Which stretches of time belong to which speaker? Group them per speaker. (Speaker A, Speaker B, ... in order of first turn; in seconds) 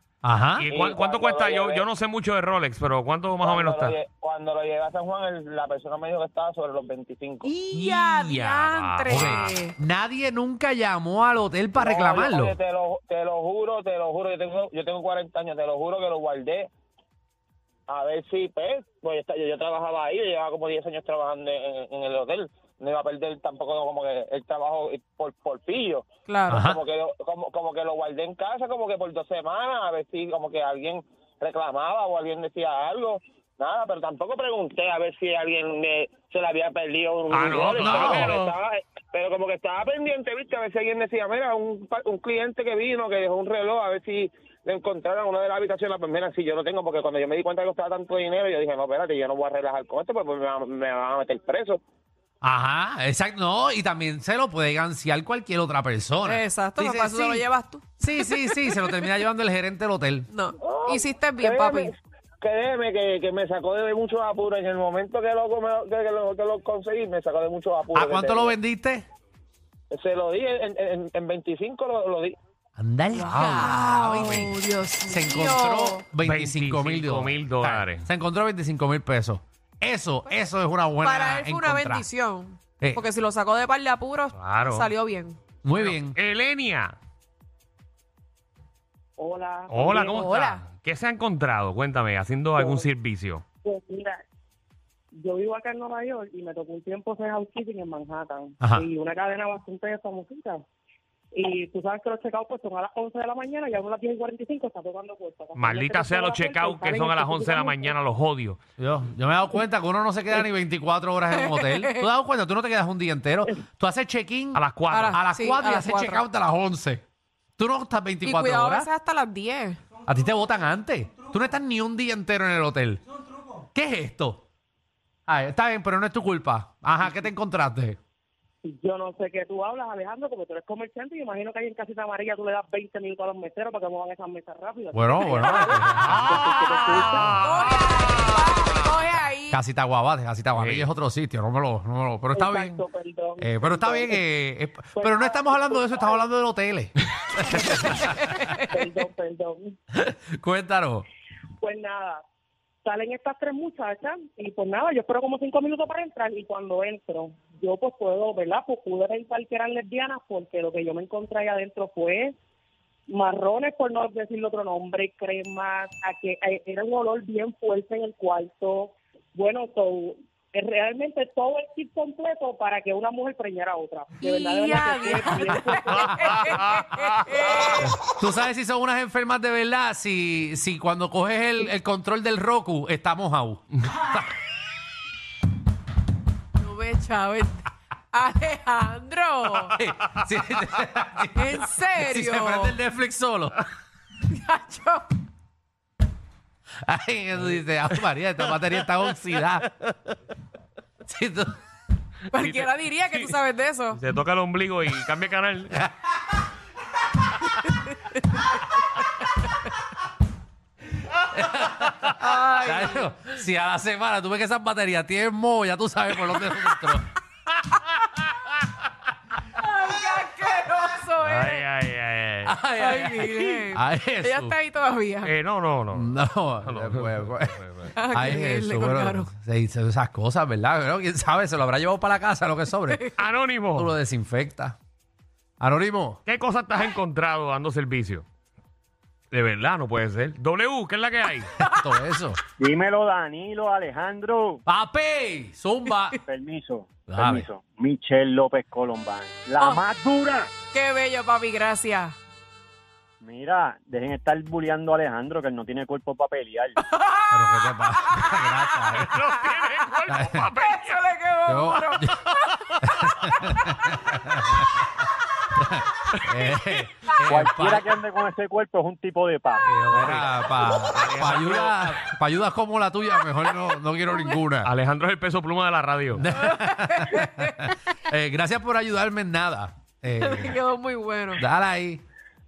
Speaker A: 0.2-0.7, 9.1-12.6, 26.5-26.8, 37.8-38.3, 52.4-57.5, 58.0-60.3, 67.9-69.1, 72.8-74.5, 75.1-82.1, 82.8-83.0, 85.6-86.2, 108.8-117.0, 117.6-118.9, 120.1-123.0, 123.7-124.4, 125.3-128.0, 134.9-136.3, 137.0-137.5, 139.5-142.8, 143.4-146.9, 147.4-148.1, 149.9-151.1, 177.8-184.3, 189.7-193.6, 196.8-199.7, 201.1-201.5, 211.3-217.1, 222.4-224.6, 225.9-233.0, 233.7-234.8, 235.6-236.2, 241.7-242.4, 244.7-246.2, 247.1-247.5, 257.3-259.2, 260.1-260.5, 261.5-262.2, 262.8-264.9, 265.6-267.9, 269.9-274.7, 276.1-280.6, 281.4-282.0
Speaker B: 0.6-4.0, 7.7-9.5, 37.3-38.6, 73.3-74.5, 76.2-78.1, 84.4-84.9, 85.8-87.0, 89.7-93.4, 105.6-108.6, 114.5-115.2, 137.2-138.1, 140.6-140.9, 175.9-177.8, 202.3-203.3, 203.9-205.8, 221.2-222.6, 225.2-227.9, 233.2-233.9, 236.3-238.2, 239.3-241.5, 259.0-261.0, 269.6-272.1, 274.6-276.2
Speaker C: 0.7-1.9, 3.4-7.5, 11.8-16.7, 17.9-26.1, 26.7-51.8, 60.6-68.5, 69.9-72.4
Speaker D: 7.4-9.7, 26.3-26.7, 56.2-59.1, 60.3-61.9, 73.1-76.0, 81.0-85.4, 90.2-90.7, 111.3-112.1, 114.9-116.2, 118.2-119.8, 136.0-139.6, 147.9-148.8, 174.2-177.9, 186.6-189.8, 191.4-192.8, 194.3-195.2, 202.3-204.0, 212.2-213.1, 219.6-221.7, 222.8-225.3, 227.9-229.3, 249.6-249.8, 250.7-252.2, 256.9-258.5, 260.6-263.6, 276.4-277.7, 280.2-281.4
Speaker E: 89.2-90.2, 92.6-92.9, 93.6-94.2, 95.1-100.6, 101.3-108.0, 128.6-137.8, 142.3-144.2, 145.0-146.2, 148.7-149.7, 151.6-152.2, 152.8-162.3, 163.1-176.6
Speaker F: 242.6-244.6, 246.3-250.5, 253.2-256.8, 267.3-270.1